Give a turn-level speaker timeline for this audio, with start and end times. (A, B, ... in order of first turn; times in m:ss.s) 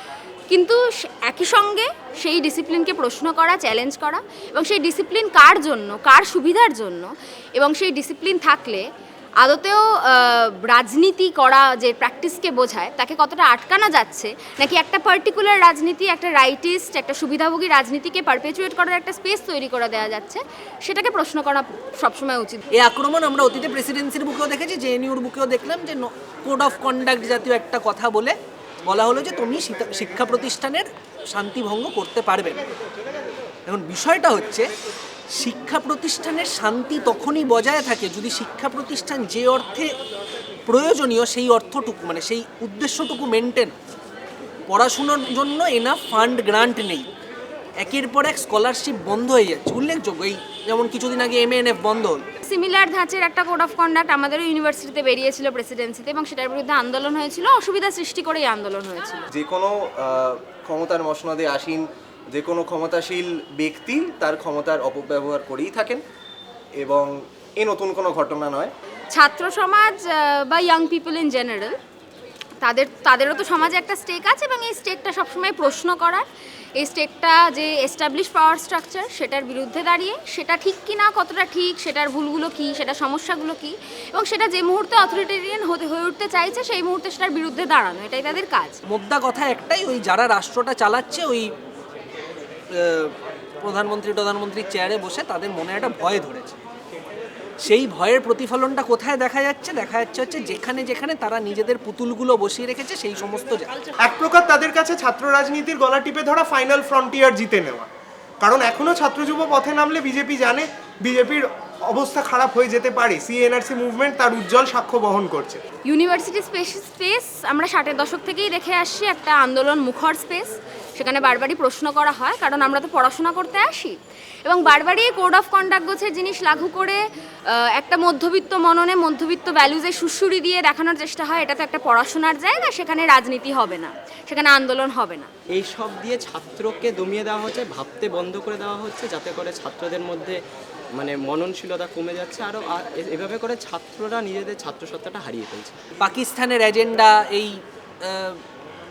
0:00.5-0:08.8 A
0:09.4-0:22.6 A
0:22.7-0:32.6 B
0:33.7-0:34.7 B
0:35.3-0:39.9 B
0:40.7-0:43.7 B
0:44.7-0:47.1 B
0:47.8-0:52.2 B
0:52.4-0:59.3 A
0:59.3-1:01.8 C
1:02.3-1:06.0 C
1:06.8-1:08.7 C
1:09.1-1:11.8 A
1:12.6-1:16.3 A
1:16.8-1:28.8 A
1:28.9-1:31.5 B
1:32.7-1:36.6 B
1:37.6-1:43.7 B
1:44.0-1:47.9 D
1:48.4-1:55.6 D
1:55.8-2:15.3 A
2:15.5-2:20.4 E
2:21.0-2:25.8 E
2:26.0-2:28.4 B